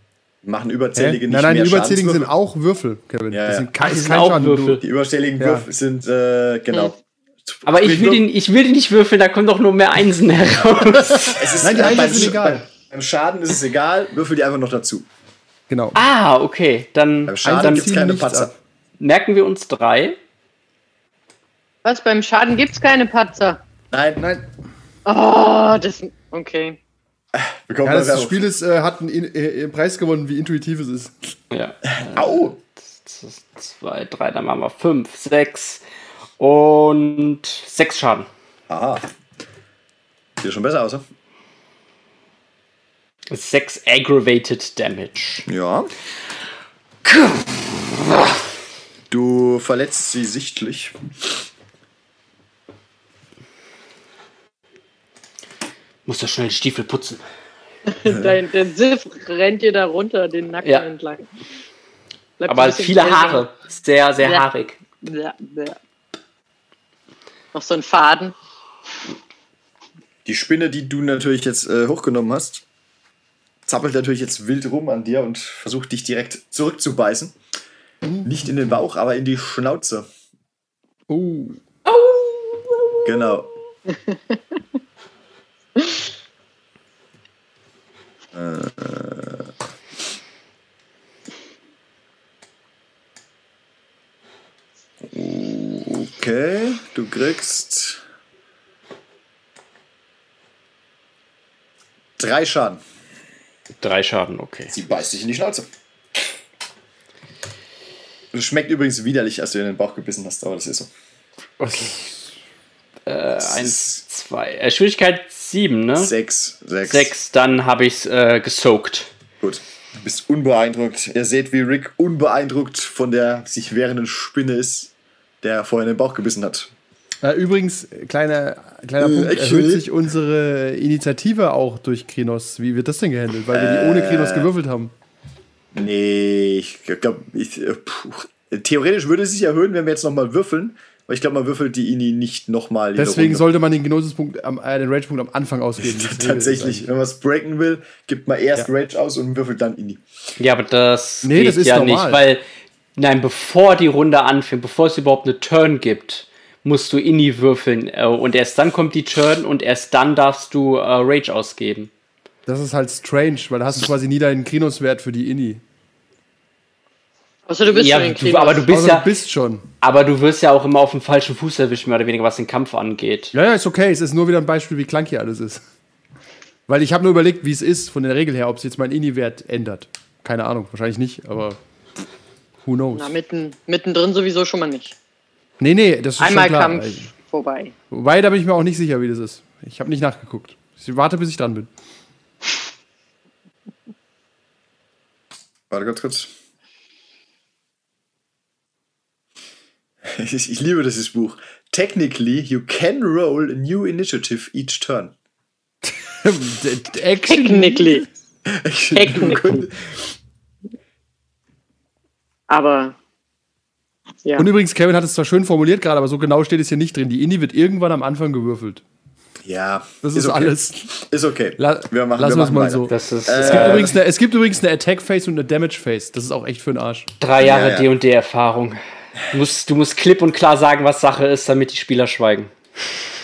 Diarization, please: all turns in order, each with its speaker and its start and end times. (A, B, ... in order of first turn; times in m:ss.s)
0:00.4-0:02.3 A
0:00.9-0:04.8 B
0:03.3-0:03.7 A
0:03.8-0:04.8 C
0:04.8-0:08.2 A
0:05.4-0:05.7 B
0:07.6-0:12.0 C
0:11.3-0:15.0 A
0:11.6-0:12.6 B
0:15.7-0:16.0 B
0:15.9-0:17.9 C
0:17.2-0:18.5 A
0:17.4-0:18.5 B
0:19.0-0:20.2 C
0:21.8-0:23.6 D
0:23.9-0:24.2 A
0:24.2-0:24.4 B
0:25.0-0:26.8 D
0:27.3-0:28.4 A
0:27.8-0:31.3 B
0:31.5-0:35.8 C
0:31.9-0:32.6 A
0:36.4-0:38.3 C
0:38.7-0:39.0 A
0:40.4-0:41.0 A
0:43.3-0:45.4 C
0:45.5-0:45.9 A
0:47.0-0:48.4 C
0:49.1-0:51.0 A
0:56.0-0:57.2 C
0:57.9-1:01.3 D
0:58.1-0:58.3 A
1:00.6-1:00.9 C
1:02.4-1:03.4 D
1:02.4-1:04.8 C
1:05.0-1:05.8 D
1:07.5-1:08.3 D
1:10.2-1:12.6 A
1:13.6-1:17.4 A
1:18.0-1:18.4 B
1:18.2-1:20.1 A
1:21.1-1:21.6 B
1:21.9-1:23.0 D
1:23.0-1:23.5 A
1:23.9-1:24.3 D
1:28.3-1:29.5 A
1:35.0-1:38.0 A
1:42.2-1:42.8 A
1:43.8-1:44.7 C
1:44.7-1:45.7 A
1:48.3-1:50.9 A
1:51.6-1:52.1 C
1:53.0-1:56.1 C
1:53.4-1:54.0 A
1:56.0-1:57.1 A
1:56.8-1:59.1 C
1:59.4-2:06.7 A
2:07.2-2:14.9 B
2:09.0-2:09.9 A
2:13.5-2:14.5 A
2:15.7-2:23.4 A
2:23.0-2:26.8 B
2:25.8-2:30.0 A
2:30.4-2:32.4 C
2:31.2-2:32.2 B
2:33.0-2:41.9 C
2:42.5-2:45.6 B
2:47.5-2:48.7 D
2:47.7-2:49.1 C
2:48.6-2:49.6 B
2:49.8-2:53.3 C
2:53.3-2:55.6 B
2:56.7-3:01.6 B
3:02.6-3:03.1 B
3:02.9-3:04.9 D
3:05.6-3:07.1 B
3:06.2-3:07.7 D
3:07.9-3:11.7 B
3:15.7-3:16.3 A
3:20.0-3:25.1 A
3:25.8-3:28.0 B
3:27.3-3:28.0 D
3:28.4-3:30.1 A
3:28.9-3:29.7 D
3:32.5-3:33.0 D
3:34.4-3:38.8 B
3:39.4-3:44.0 A
3:40.0-3:40.9 B
3:41.6-3:47.1 B
3:42.9-3:43.9 C
3:47.2-3:52.5 C
3:47.4-3:47.9 A